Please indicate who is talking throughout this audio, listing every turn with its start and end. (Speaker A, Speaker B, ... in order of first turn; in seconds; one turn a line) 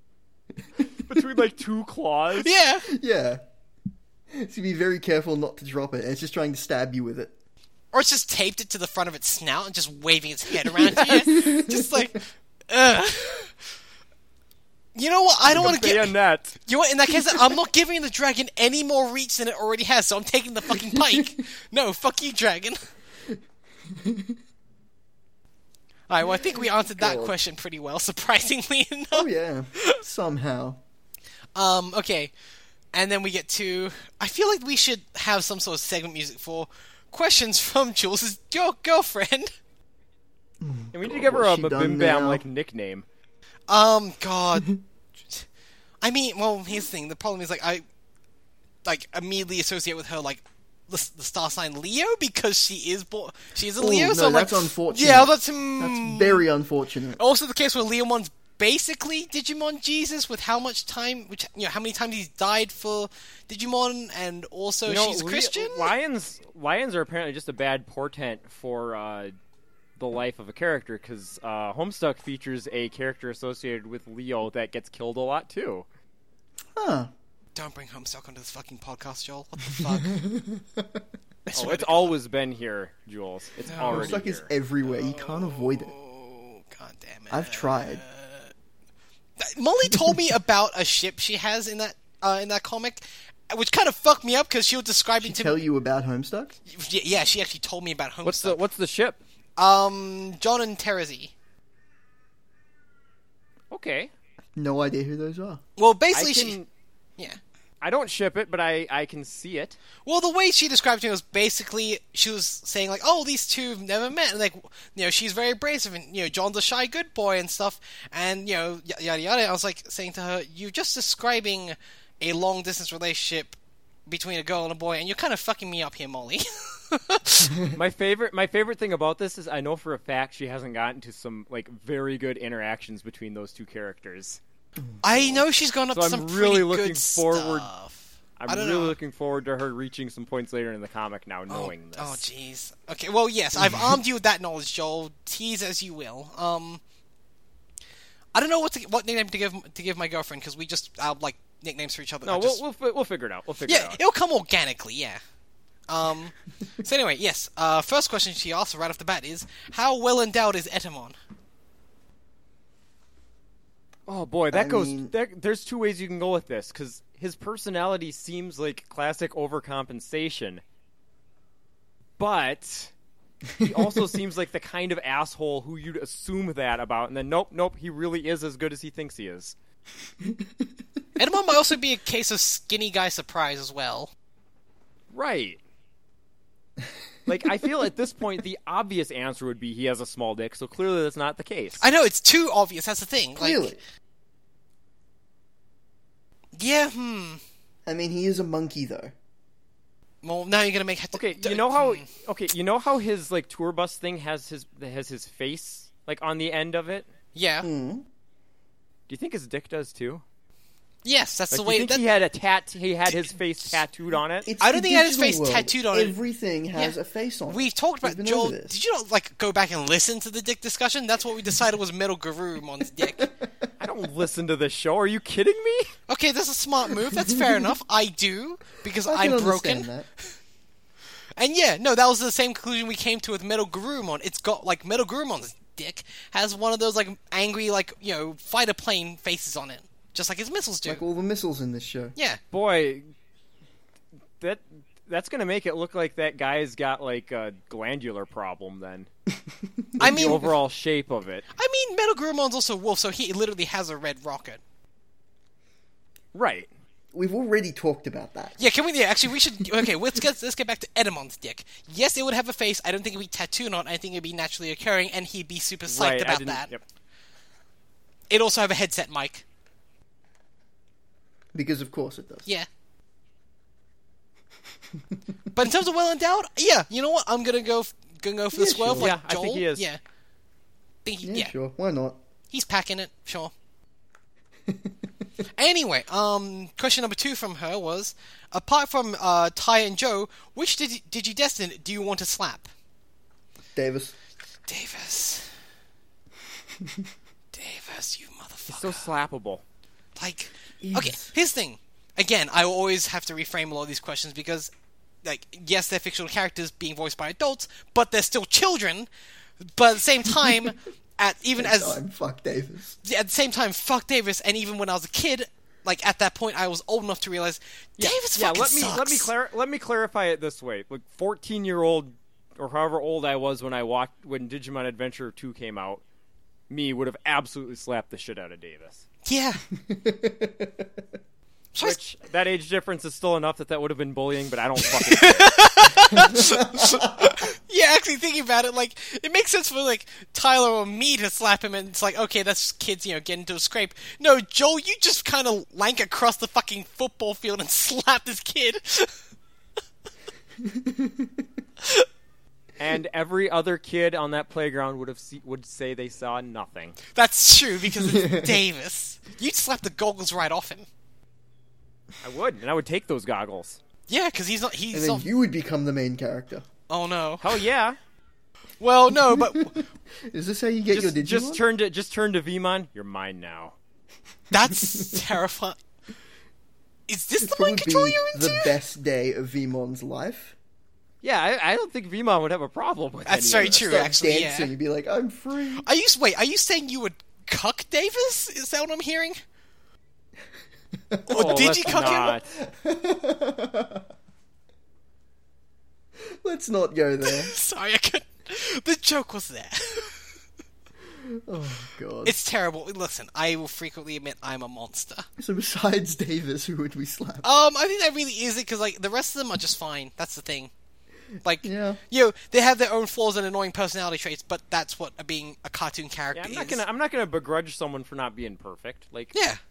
Speaker A: 1.1-2.5
Speaker B: 2.4-2.9
Speaker C: 2.9-3.4
Speaker C: 4.3-7.3
Speaker B: 7.9-13.6
Speaker A: 10.9-11.2
Speaker C: 11.1-12.1
Speaker B: 14.9-22.8
Speaker A: 15.5-16.6
Speaker C: 15.5-15.8
Speaker C: 20.8-21.3
Speaker C: 23.3-24.4
Speaker B: 26.1-30.0
Speaker C: 26.4-27.3
Speaker C: 29.1-30.8
Speaker B: 31.6-32.3
Speaker B: 32.9-39.5
Speaker C: 40.6-42.4
Speaker A: 40.9-43.0
Speaker B: 43.7-45.5
Speaker B: 46.0-47.8
Speaker B: 48.9-56.4
Speaker C: 53.8-57.2
Speaker B: 57.2-65.9
Speaker A: 64.9-69.3
Speaker A: 70.0-75.9
Speaker C: 76.8-77.1
Speaker B: 77.5-80.3
Speaker C: 80.2-81.0
Speaker B: 81.5-82.2
Speaker A: 81.5-84.5
Speaker B: 83.7-84.2
Speaker C: 83.8-85.9
Speaker B: 84.8-88.5
Speaker C: 87.3-88.0
Speaker B: 89.4-95.6
Speaker C: 95.2-96.5
Speaker B: 96.7-98.6
Speaker A: 98.2-99.2
Speaker B: 99.6-101.3
Speaker A: 103.7-104.1
Speaker C: 104.6-105.6
Speaker B: 105.8-106.6
Speaker A: 106.1-106.7
Speaker A: 107.8-109.8
Speaker B: 110.1-127.6
Speaker A: 127.7-134.4
Speaker B: 135.0-139.0
Speaker A: 135.1-135.4
Speaker A: 135.9-137.7
Speaker A: 138.4-142.2
Speaker B: 141.5-146.8
Speaker B: 148.3-152.6
Speaker A: 152.2-154.0
Speaker B: 153.7-155.2
Speaker B: 155.9-161.2
Speaker A: 164.1-170.6
Speaker C: 164.5-165.1
Speaker A: 172.2-172.9
Speaker A: 173.6-179.6
Speaker C: 173.6-173.9
Speaker B: 181.2-184.1
Speaker A: 185.1-185.6
Speaker A: 187.3-191.8
Speaker B: 191.8-193.7
Speaker C: 193.4-193.8
Speaker B: 196.6-197.4
Speaker C: 197.9-199.2
Speaker B: 200.2-202.1
Speaker A: 201.1-207.1
Speaker B: 207.3-207.7
Speaker C: 207.6-208.1
Speaker A: 209.1-210.2
Speaker B: 211.1-212.0
Speaker A: 211.5-214.5
Speaker B: 213.1-213.8
Speaker C: 214.4-218.8
Speaker B: 214.6-216.2
Speaker B: 216.7-223.3
Speaker A: 223.8-225.9
Speaker B: 226.1-229.9
Speaker C: 227.1-227.5
Speaker C: 229.1-230.1
Speaker B: 231.4-241.0
Speaker C: 240.8-242.2
Speaker A: 242.5-243.1
Speaker A: 244.4-249.1
Speaker C: 249.4-250.5
Speaker A: 250.0-251.4
Speaker B: 250.0-250.6
Speaker B: 251.5-254.6
Speaker A: 256.3-256.7
Speaker C: 257.1-258.6
Speaker B: 258.6-266.7
Speaker A: 265.9-266.8
Speaker B: 268.3-269.4
Speaker C: 271.5-272.5
Speaker B: 275.5-280.0
Speaker C: 278.5-279.1
Speaker A: 279.0-279.9
Speaker B: 281.1-281.5
Speaker C: 281.2-282.2
Speaker B: 282.5-283.5
Speaker C: 284.7-284.9
Speaker B: 285.6-292.7
Speaker C: 293.8-294.2
Speaker B: 294.7-295.5
Speaker C: 296.8-297.1
Speaker B: 297.5-299.1
Speaker A: 298.7-299.6
Speaker B: 300.2-304.7
Speaker C: 300.8-301.3
Speaker B: 305.2-309.1
Speaker B: 309.8-312.0
Speaker C: 311.6-313.0
Speaker B: 313.0-319.3
Speaker A: 318.0-326.0
Speaker A: 326.7-329.1
Speaker B: 329.2-329.6
Speaker C: 329.8-331.0
Speaker B: 331.7-332.0
Speaker A: 331.8-335.6
Speaker B: 335.1-349.1
Speaker C: 336.2-337.3
Speaker C: 350.6-351.4
Speaker A: 352.8-357.0
Speaker B: 357.1-360.9
Speaker C: 358.0-358.6
Speaker A: 362.2-363.8
Speaker B: 364.1-365.3
Speaker C: 364.9-366.7
Speaker B: 366.9-367.6
Speaker A: 367.4-368.0
Speaker B: 368.8-369.9
Speaker C: 369.3-371.6
Speaker A: 370.9-373.8
Speaker B: 374.5-375.8
Speaker C: 374.9-375.2
Speaker B: 377.1-378.8
Speaker C: 377.4-380.6
Speaker A: 381.2-384.1
Speaker B: 383.3-384.7
Speaker C: 383.9-385.9
Speaker B: 385.8-389.4
Speaker C: 391.1-394.1
Speaker B: 391.3-392.4
Speaker A: 391.3-392.5
Speaker C: 396.3-397.5
Speaker B: 397.2-400.2
Speaker C: 401.2-402.4
Speaker B: 402.2-405.3
Speaker C: 405.4-407.4
Speaker B: 407.4-410.7
Speaker B: 411.4-416.8
Speaker C: 411.6-412.0
Speaker A: 416.3-419.4
Speaker B: 419.3-419.6